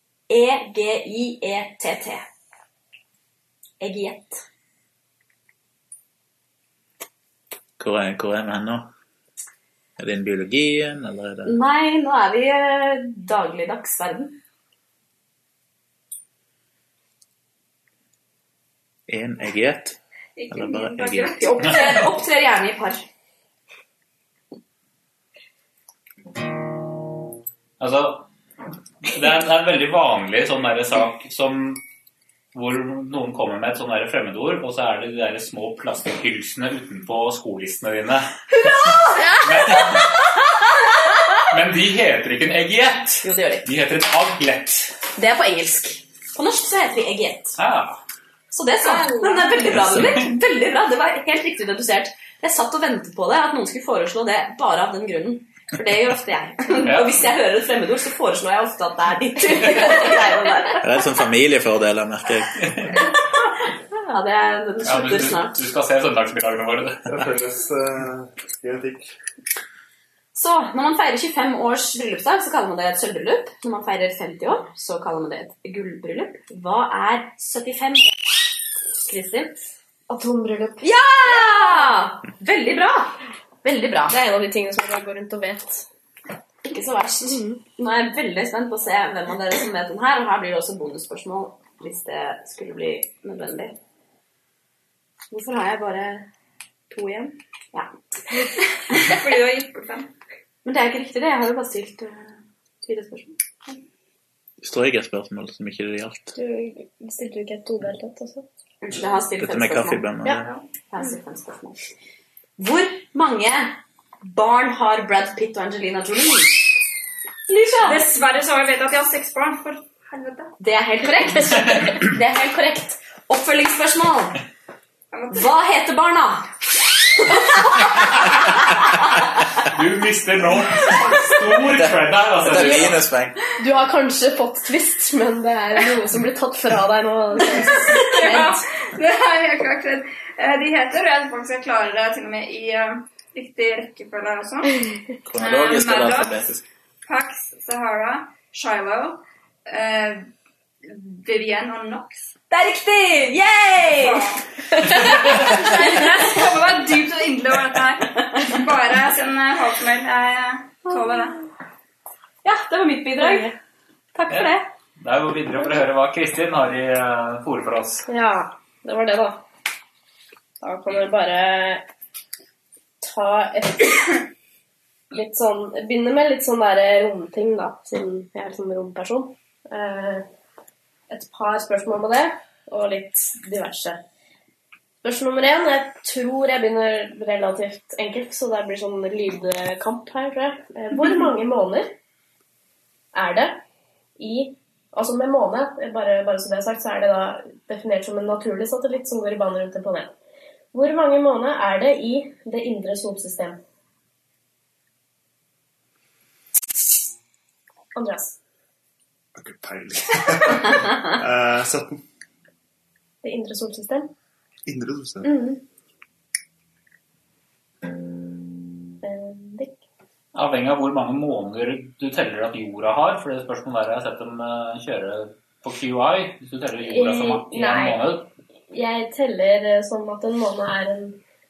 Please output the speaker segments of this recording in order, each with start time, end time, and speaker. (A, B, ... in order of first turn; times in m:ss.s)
0:00.3-0:02.2 A
0:03.8-0:04.4 A
0:07.8-0:08.9 B
0:10.0-0:11.5 B
0:11.4-0:14.4 A
0:19.1-0:20.0 B
0:20.4-0:21.9 C
0:20.5-0:21.5 B
0:21.4-0:23.0 A
0:27.8-0:28.3 D
0:29.0-0:31.8 D
0:32.5-0:38.3 D
0:38.5-0:41.4 A
0:39.2-0:39.6 E
0:39.4-0:40.1 D
0:41.5-0:45.0 D
0:43.2-0:43.7 A
0:45.2-0:47.6 A
0:47.6-0:48.0 D
0:48.5-1:00.9 A
0:48.8-0:49.7 C
0:49.7-0:50.2 B
0:56.8-0:57.2 D
1:00.8-1:02.8 B
1:02.6-1:02.9 D
1:04.1-1:05.6 A
1:04.8-1:07.1 D
1:07.1-1:09.1 F
1:10.3-1:19.7 A
1:20.1-1:21.9 E
1:20.8-1:24.2 A
1:24.1-1:25.8 E
1:26.6-1:33.8 A
1:35.3-1:36.3 A
1:36.9-1:37.9 A
1:38.9-1:40.1 C
1:40.6-1:43.4 A
1:44.6-1:46.4 B
1:46.4-1:48.4 E
1:48.8-1:50.2 A
1:49.4-1:50.4 B
1:50.3-1:50.6 C
1:50.9-1:51.8 A
1:52.6-1:56.7 A
1:57.5-1:58.1 A
1:57.8-2:00.6 C
2:00.6-2:04.4 A
2:05.1-2:05.5 C
2:05.3-2:06.5 A
2:07.2-2:09.2 A
2:09.6-2:13.0 D
2:11.7-2:13.4 B
2:12.5-2:13.0 E
2:13.6-2:18.5 E
2:17.7-2:18.6 A
2:17.7-2:26.5 C
2:25.2-2:26.6 B
2:27.0-2:30.3 C
2:30.8-2:32.3 C
2:32.5-2:34.3 A
2:34.0-2:41.4 C
2:34.9-2:36.0 A
2:42.4-2:43.6 A
2:43.2-2:43.5 E
2:44.1-2:44.7 A
2:44.3-2:48.1 D
2:48.1-2:49.4 E
2:50.6-2:51.8 E
2:53.0-2:54.2 E
2:55.1-3:00.2 E
3:01.1-3:04.0 E
3:05.0-3:11.9 E
3:13.1-3:13.6 E
3:14.2-3:20.1 E
3:20.7-3:23.6 E
3:28.0-3:28.4 E
3:29.3-3:32.0 F
3:33.2-3:34.1 E
3:34.6-3:35.5 F
3:35.2-3:35.6 E
3:39.0-3:39.8 E
3:40.3-3:48.3 D
3:46.8-3:48.0 E
3:48.7-3:51.2 E